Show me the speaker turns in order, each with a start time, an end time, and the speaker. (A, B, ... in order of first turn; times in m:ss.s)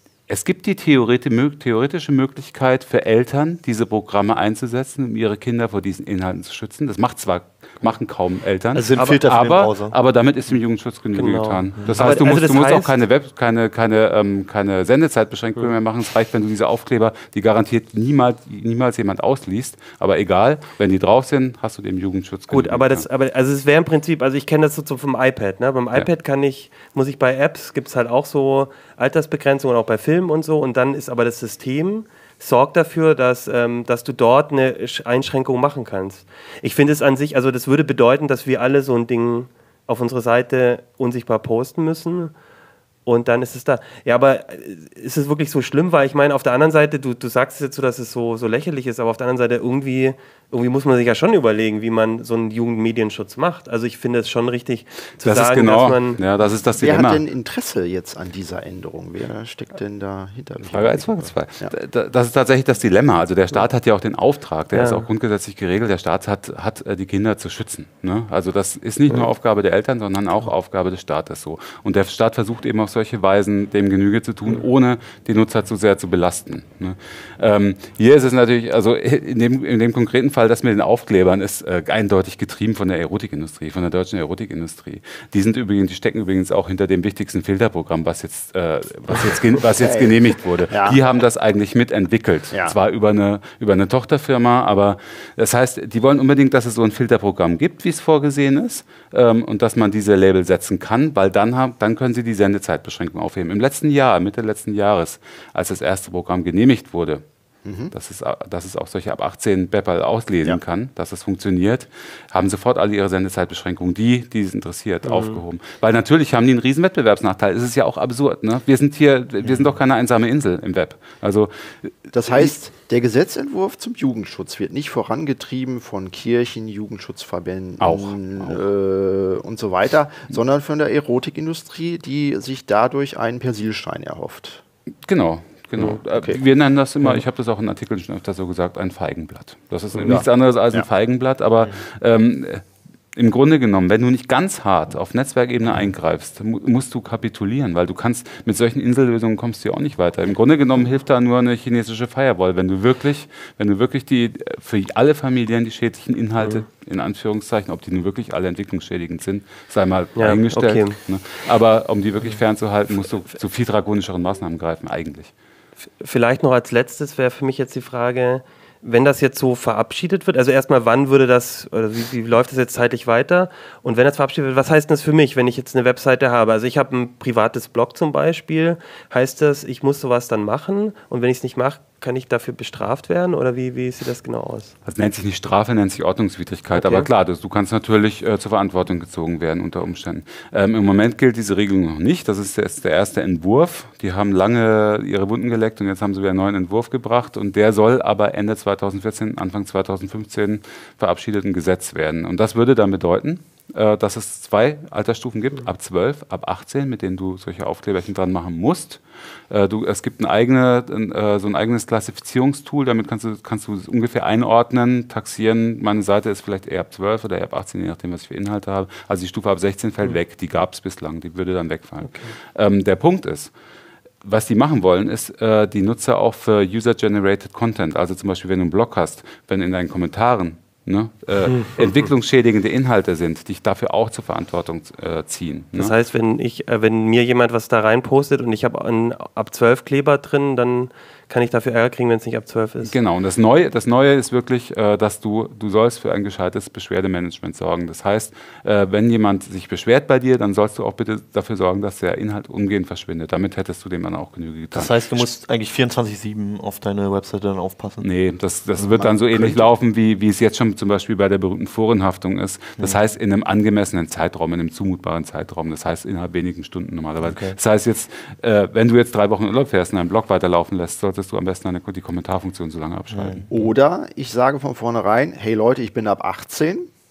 0:00.3-0:23.1 A
0:08.7-0:10.0 B
0:11.2-0:13.0 C
0:22.5-0:42.3 C
0:43.0-0:56.2 C
0:55.2-0:57.2 A
0:56.8-1:01.7 D
1:00.6-1:47.2 A
1:04.7-1:05.1 C
1:29.8-1:30.1 D
1:30.7-1:31.0 D
1:47.6-1:47.9 D
1:47.9-2:02.5 A
1:55.0-1:55.4 C
2:02.1-2:14.6 D
2:07.8-2:08.6 A
2:15.0-2:45.3 A
2:16.1-2:16.4 D
2:20.0-2:20.8 D
2:36.4-2:36.6 C
2:40.2-2:41.0 C
2:46.0-3:04.7 C
3:04.8-3:43.5 A
3:06.7-3:07.1 C
3:42.0-3:42.3 C
3:44.2-3:55.9 A
3:55.7-4:02.9 C
4:02.8-4:15.3 A
4:14.7-4:18.1 B
4:18.0-4:33.5 A
4:18.8-4:19.6 D
4:27.2-4:27.6 B
4:33.1-4:33.4 B
4:33.5-4:36.9 D